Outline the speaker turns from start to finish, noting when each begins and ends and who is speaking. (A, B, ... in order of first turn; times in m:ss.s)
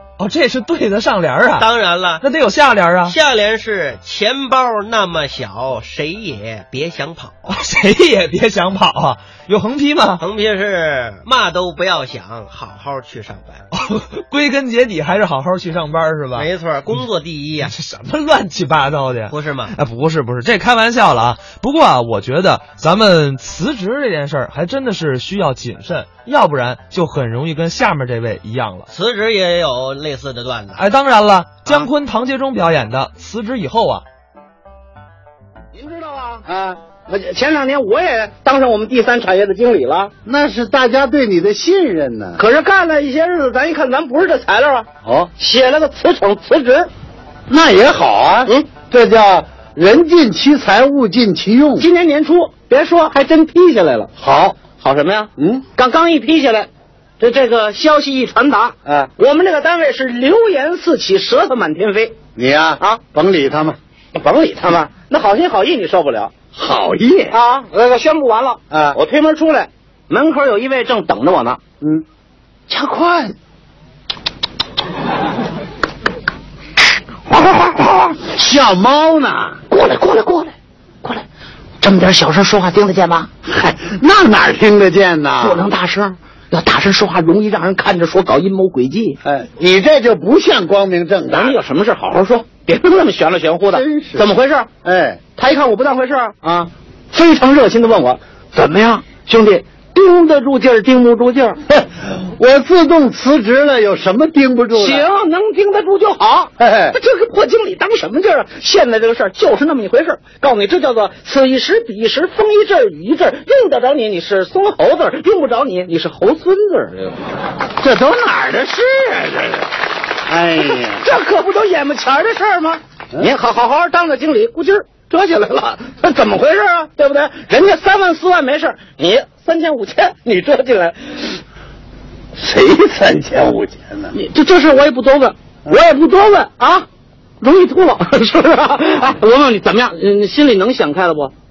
0:00.2-0:01.7 A
0:01.6-0:02.2 B
0:02.2-0:03.2 A
0:03.0-0:07.4 B
0:07.5-0:10.2 A
0:10.2-0:13.6 B
0:13.7-0:16.5 A
0:16.3-0:17.7 B
0:17.6-0:28.9 A
0:19.3-0:19.7 B
0:28.9-0:30.8 B
0:30.8-0:34.0 A
0:35.7-0:36.5 C
0:36.5-0:36.8 D
0:37.0-0:40.1 C
0:40.2-0:42.4 D
0:42.4-0:46.9 C
0:45.0-0:45.3 D
0:47.5-0:51.9 D
0:51.8-0:54.1 C
0:54.2-0:54.6 D
0:54.8-1:02.1 C
0:55.4-0:55.6 D
0:58.8-0:59.1 D
1:02.4-1:03.8 D
1:04.1-1:06.3 C
1:06.5-1:07.4 D
1:07.3-1:11.6 C
1:08.7-1:09.0 D
1:12.7-1:13.3 D
1:17.3-1:18.0 C
1:18.1-1:19.6 D
1:19.7-1:21.2 C
1:21.8-1:23.3 C
1:23.4-1:25.6 D
1:25.4-1:29.2 C
1:29.2-1:31.6 D
1:31.3-1:34.7 C
1:33.7-1:34.3 D
1:34.8-1:35.2 D
1:35.4-1:41.6 C
1:41.7-1:45.1 D
1:44.7-1:57.2 C
1:46.6-1:47.0 D
1:57.8-1:59.7 D
2:00.2-2:01.1 D
2:00.6-2:11.4 C
2:12.4-2:14.1 D
2:14.1-2:16.9 C
2:17.4-2:21.3 C